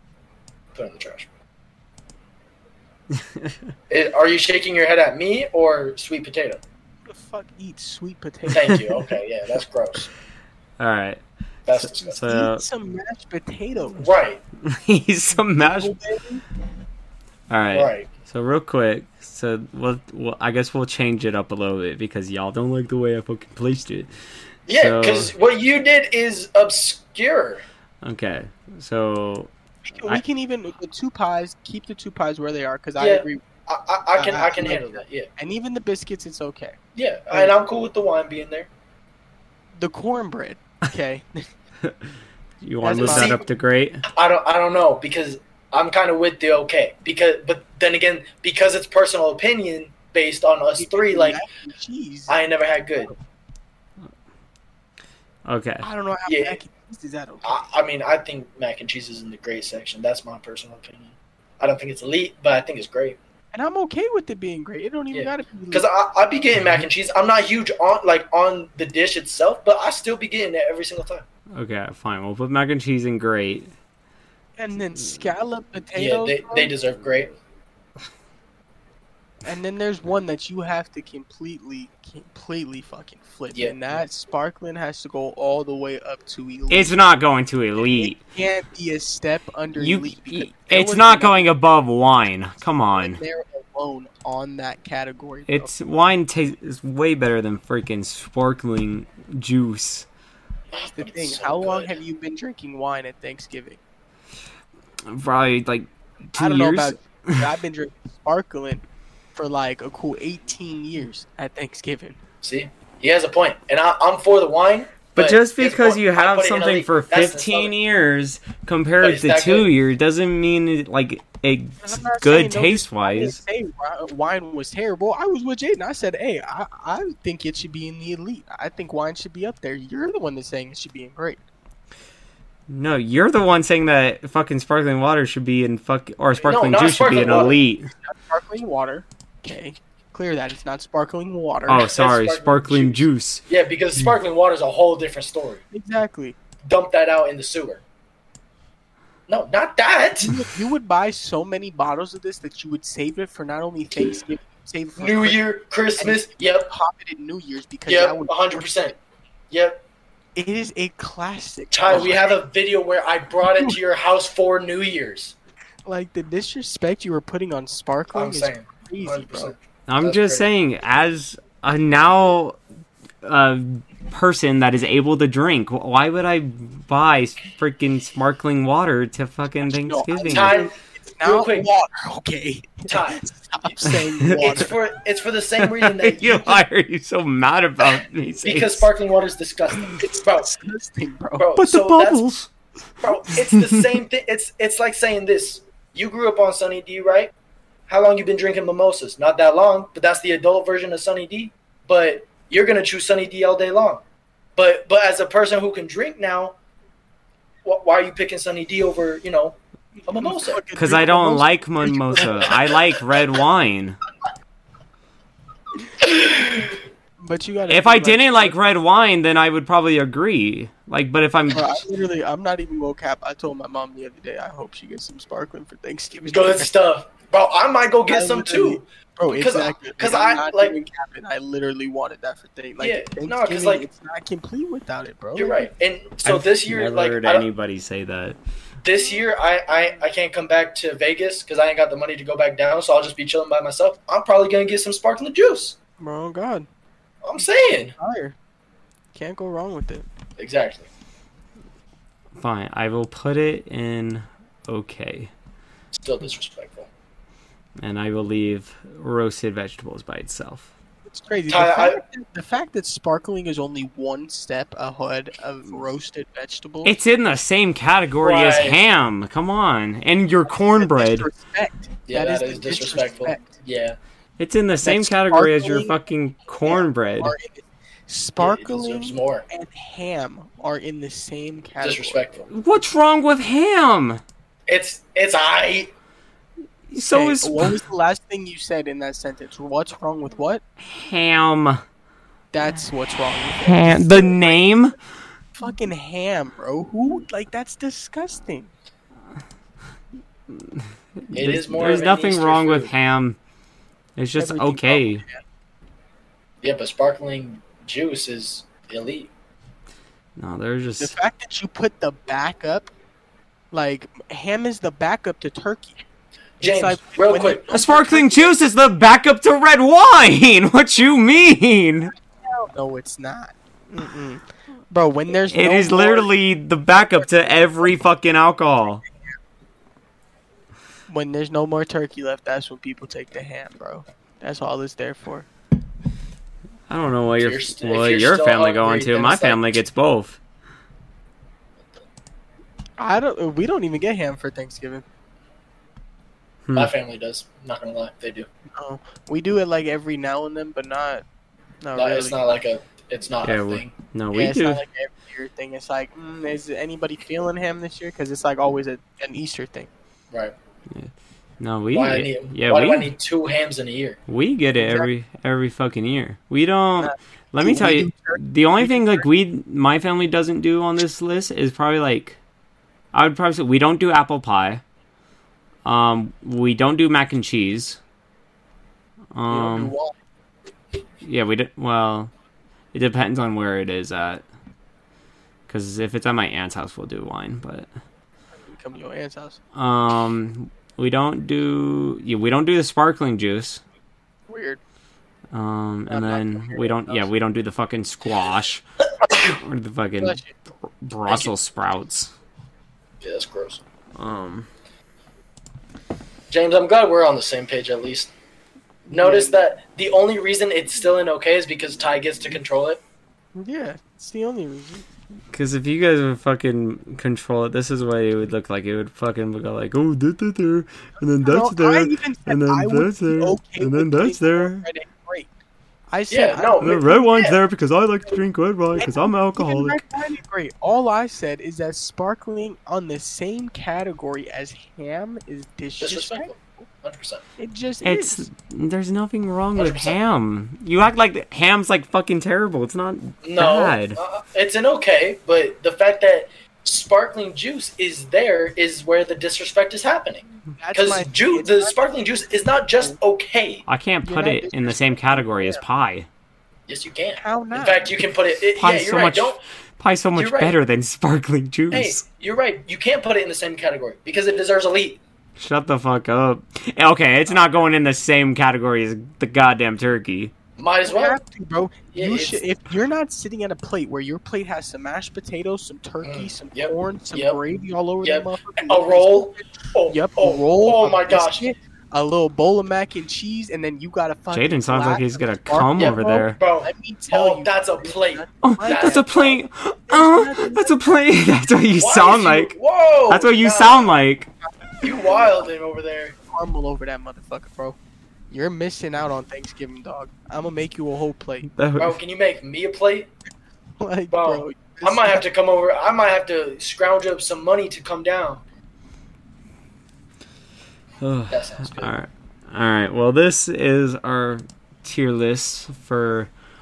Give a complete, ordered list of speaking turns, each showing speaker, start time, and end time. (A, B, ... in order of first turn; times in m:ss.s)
0:00.7-0:01.3 A
0:03.2-0:03.6 B
0:03.9-0:06.6 A
0:07.1-0:08.8 C
0:08.5-0:10.1 A
0:10.8-0:12.6 B
0:11.6-0:12.2 A
0:12.2-0:14.0 C
0:14.0-0:14.4 A
0:14.6-0:15.9 B
0:15.4-0:16.4 C
0:17.5-0:24.1 B
0:17.7-0:18.1 A
0:24.7-0:25.3 B
0:24.7-0:27.6 A
0:28.0-0:30.2 B
0:29.9-0:33.4 C
0:33.0-0:35.3 A
0:34.2-0:36.8 C
0:37.0-0:38.7 A
0:39.8-0:41.4 C
0:42.6-0:44.0 B
0:42.8-0:43.4 C
0:43.0-0:43.4 A
0:44.1-0:51.4 A
0:50.8-0:52.4 C
0:52.3-0:53.1 A
0:55.4-0:55.9 B
0:55.8-0:57.6 C
0:56.2-0:56.6 A
0:57.4-1:03.2 A
1:03.5-1:05.8 C
1:05.1-1:11.2 A
1:11.5-1:13.7 B
1:14.6-1:16.7 C
1:15.9-1:17.3 A
1:19.4-1:27.0 C
1:26.7-1:28.2 B
1:27.8-1:31.5 C
1:29.8-1:33.2 B
1:32.9-1:35.7 C
1:35.5-1:40.1 B
1:40.7-1:42.0 A
1:40.8-1:43.8 C
1:45.0-1:47.4 B
1:46.4-1:48.8 C
1:49.3-1:52.2 C
1:52.4-1:57.7 A
1:55.1-2:03.4 B
1:59.0-1:59.7 A
2:01.8-2:11.4 C
2:12.7-2:17.9 B
2:16.4-2:17.6 A
2:17.2-2:21.9 C
2:21.7-2:23.4 B
2:21.8-2:25.6 A
2:25.7-2:26.4 C
2:26.6-2:27.8 A
2:29.3-2:30.4 A
2:30.2-2:35.4 C
2:35.0-2:36.7 A
2:36.0-2:38.9 C
2:37.9-2:39.0 A
2:39.5-2:39.8 A
2:40.4-2:42.3 C
2:41.7-2:45.3 A
2:45.8-2:49.5 C
2:48.1-2:50.4 A
2:49.9-2:52.6 B
2:53.2-3:00.6 B
2:59.6-3:04.7 C
3:00.2-3:01.7 A
3:02.9-3:03.7 A
3:04.3-3:04.6 B
3:04.3-3:06.6 A
3:05.6-3:08.9 B
3:08.4-3:10.5 A
3:09.9-3:11.5 C
3:11.4-3:12.3 A
3:11.6-3:12.5 B
3:13.0-3:17.3 A
3:13.3-3:13.9 B
3:17.9-3:24.0 A
3:24.6-3:26.5 A
3:27.6-3:30.6 A
3:30.1-3:32.6 C
3:30.7-3:34.0 B
3:36.0-3:36.7 A
3:37.2-3:38.5 C
3:37.7-3:41.8 B
3:41.5-3:46.7 C
3:46.3-3:50.8 A
3:48.1-3:55.7 C
3:52.8-3:53.8 A
3:55.4-3:57.4 A
3:56.2-3:58.4 B
3:58.8-4:05.8 A
4:06.0-4:06.7 C
4:07.2-4:07.9 A
4:08.0-4:08.4 C
4:09.1-4:10.0 C
4:10.4-4:10.9 A
4:12.4-4:15.3 B
4:15.9-4:16.9 A
4:17.8-4:20.7 B
4:21.1-4:27.0 C
4:21.5-4:22.0 A
4:26.8-4:31.3 B
4:28.2-4:28.8 A
4:30.5-4:33.6 C
4:32.1-4:34.0 A
4:34.4-4:37.3 B
4:34.8-4:35.9 C
4:36.6-4:42.4 C
4:38.4-4:39.4 A
4:41.8-4:42.5 A
4:42.5-4:44.2 B
4:44.7-4:45.9 A
4:46.9-4:47.8 B
4:46.9-4:50.6 C
4:50.8-4:51.8 B
4:52.5-4:54.6 C
4:53.6-4:54.9 B
4:55.6-4:58.7 C
5:00.5-5:03.4 B
5:01.3-5:02.9 A
5:04.2-5:05.2 B
5:04.4-5:05.4 C
5:06.6-5:09.3 A
5:10.4-5:11.2 B
5:11.0-5:12.9 C
5:13.7-5:16.0 C
5:16.6-5:17.6 A
5:16.6-5:18.6 C
5:17.7-5:22.1 B
5:22.4-5:26.3 C
5:25.5-5:29.0 B
5:31.1-5:35.5 C
5:36.9-5:40.4 B
5:37.4-5:39.8 A
5:43.0-5:45.0 C
5:46.7-5:46.9 B
5:46.7-5:48.5 A
5:48.8-5:51.2 C
5:51.8-5:52.4 C
5:52.0-5:53.9 A
5:53.4-5:54.8 B
5:54.3-5:59.9 C
6:00.9-6:03.1 B
6:01.9-6:04.2 A
6:04.3-6:12.4 B
6:04.8-6:05.1 C
6:07.0-6:09.2 C
6:13.1-6:14.8 B
6:15.8-6:18.0 B
6:19.3-6:19.9 B
6:19.5-6:20.2 C
6:21.2-6:22.3 B
6:22.9-6:24.4 B
6:25.7-6:27.9 B
6:28.7-6:29.6 C
6:29.7-6:33.8 B
6:34.5-6:34.8 C
6:35.5-6:38.8 B
6:36.1-6:37.3 C
6:39.3-6:39.6 A
6:39.5-6:42.3 B
6:40.2-6:40.5 C
6:43.2-6:43.8 A
6:44.2-6:44.7 B
6:46.5-6:48.3 A
6:49.1-6:49.6 C
6:49.1-6:53.0 A
6:53.5-6:55.0 C
6:55.5-7:04.9 B
7:01.4-7:05.5 C
7:06.1-7:07.0 C
7:06.3-7:07.6 A
7:06.8-7:10.0 B
7:09.0-7:16.8 C
7:16.0-7:17.4 A
7:17.6-7:18.5 C
7:18.0-7:24.2 B
7:19.8-7:20.2 A
7:23.4-7:33.8 A
7:30.8-7:32.0 C
7:33.9-7:36.3 B
7:34.2-7:35.8 C
7:36.9-7:39.6 A
7:37.4-7:38.1 C
7:38.8-7:42.2 B
7:40.3-7:40.7 A
7:41.9-7:45.2 A
7:45.6-7:50.5 B
7:50.8-7:51.4 A
7:51.0-8:09.3 C
7:52.1-7:52.6 A
7:56.2-7:57.6 A
7:58.2-8:01.7 A
8:04.5-8:06.6 B
8:06.0-8:09.6 A
8:08.6-8:12.7 B
8:10.1-8:11.0 C
8:12.0-8:14.1 A
8:13.3-8:14.5 B
8:15.0-8:15.4 C
8:15.0-8:16.4 A
8:16.5-8:18.0 C
8:18.5-8:21.7 C
8:21.7-8:22.2 B
8:22.0-8:23.3 A
8:24.0-8:25.4 C
8:24.3-8:28.6 A
8:31.2-8:36.5 B
8:31.5-8:32.1 A